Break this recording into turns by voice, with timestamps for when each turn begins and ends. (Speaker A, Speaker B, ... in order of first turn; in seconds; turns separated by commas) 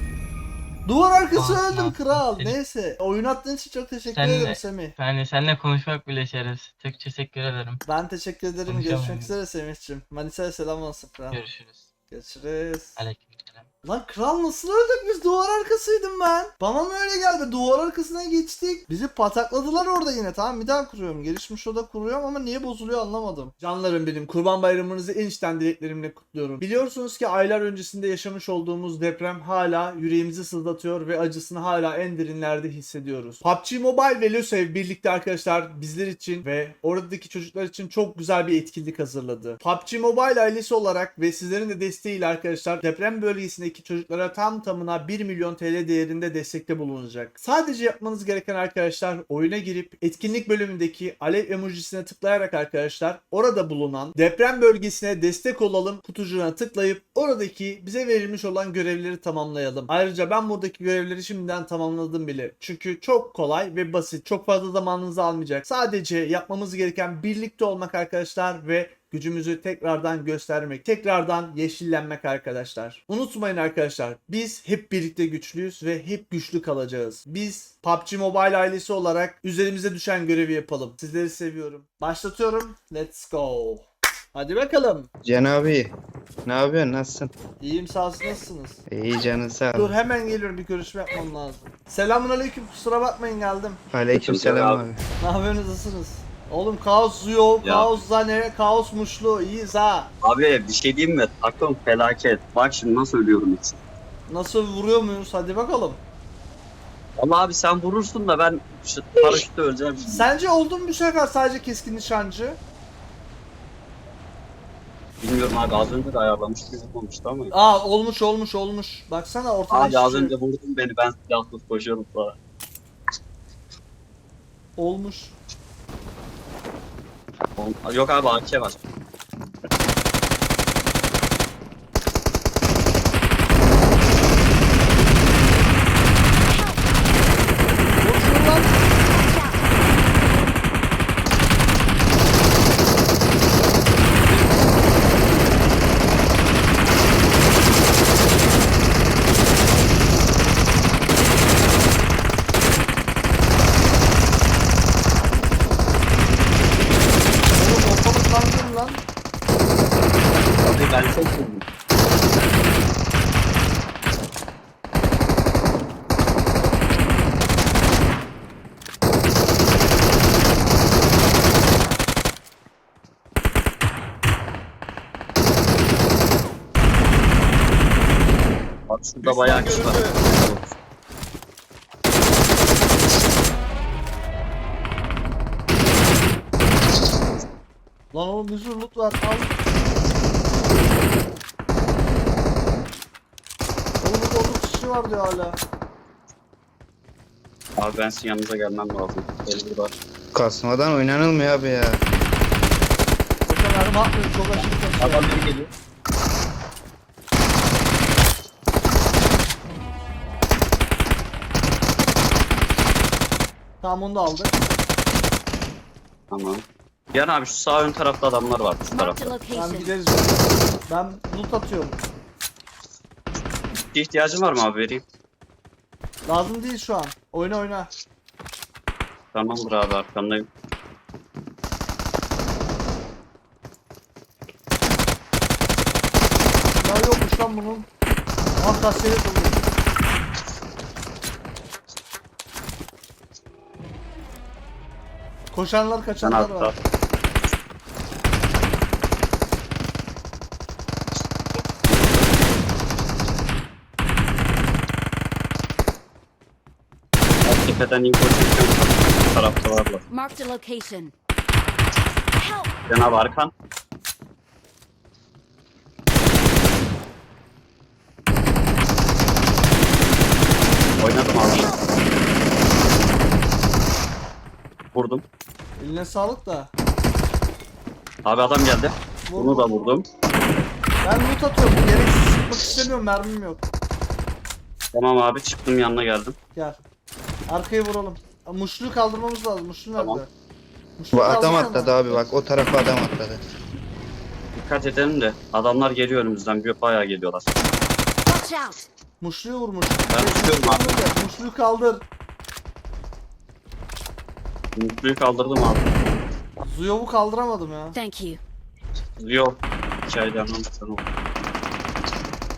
Speaker A: 0.8-4.9, Speaker B: 1.3-2.6, Speaker B: 4.0-7.8, Speaker A: 7.8-11.4, Speaker B: 8.7-9.3, Speaker B: 11.3-11.9, Speaker A: 12.1-13.0, Speaker B: 12.9-13.7, Speaker A: 13.8-85.1, Speaker C: 85.2-85.9, Speaker C: 86.4-87.3, Speaker A: 87.6-88.8, Speaker C: 88.9-89.9, Speaker A: 89.7-93.8, Speaker C: 93.9-95.0, Speaker D: 94.1-94.8, Speaker A: 95.2-100.1, Speaker D: 97.6-98.0, Speaker D: 100.2-103.8, Speaker A: 104.3-106.0, Speaker D: 107.2-110.3, Speaker A: 110.0-112.6, Speaker D: 115.2-117.5, Speaker A: 117.5-120.3, Speaker D: 119.7-122.3, Speaker A: 124.8-125.3, Speaker D: 127.6-128.8, Speaker A: 138.0-138.8, Speaker E: 139.0-139.7, Speaker A: 157.5-159.0, Speaker D: 160.6-161.6, Speaker D: 178.9-180.7, Speaker A: 179.2-180.2, Speaker A: 188.1-189.6, Speaker A: 194.0-195.6, Speaker D: 197.8-199.9, Speaker C: 200.3-202.0, Speaker A: 203.4-205.4, Speaker D: 205.0-205.7, Speaker A: 213.8-214.5, Speaker D: 216.3-219.3, Speaker E: 218.9-219.9, Speaker A: 219.5-222.0, Speaker D: 223.9-225.0, Speaker A: 226.2-227.9, Speaker D: 229.3-230.4, Speaker A: 236.8-237.9, Speaker A: 238.6-239.6, Speaker A: 245.5-246.7, Speaker D: 246.2-246.7, Speaker D: 257.4-260.0, Speaker E: 260.1-261.1, Speaker E: 262.4-262.7, Speaker D: 262.9-263.5, Speaker D: 271.0-271.8, Speaker E: 271.5-272.1, Speaker D: 274.9-275.2, Speaker A: 275.8-276.7, Speaker D: 278.2-280.0, Speaker A: 279.3-280.0, Speaker A: 281.0-283.6, Speaker D: 284.9-286.4, Speaker A: 287.5-290.3, Speaker D: 290.0-290.2, Speaker A: 291.0-292.0, Speaker C: 291.1-293.4, Speaker D: 294.5-297.5, Speaker E: 298.2-298.8, Speaker A: 299.2-302.0, Speaker D: 300.1-301.0, Speaker D: 304.8-305.9, Speaker A: 306.6-307.9, Speaker E: 307.9-308.4, Speaker D: 309.2-311.0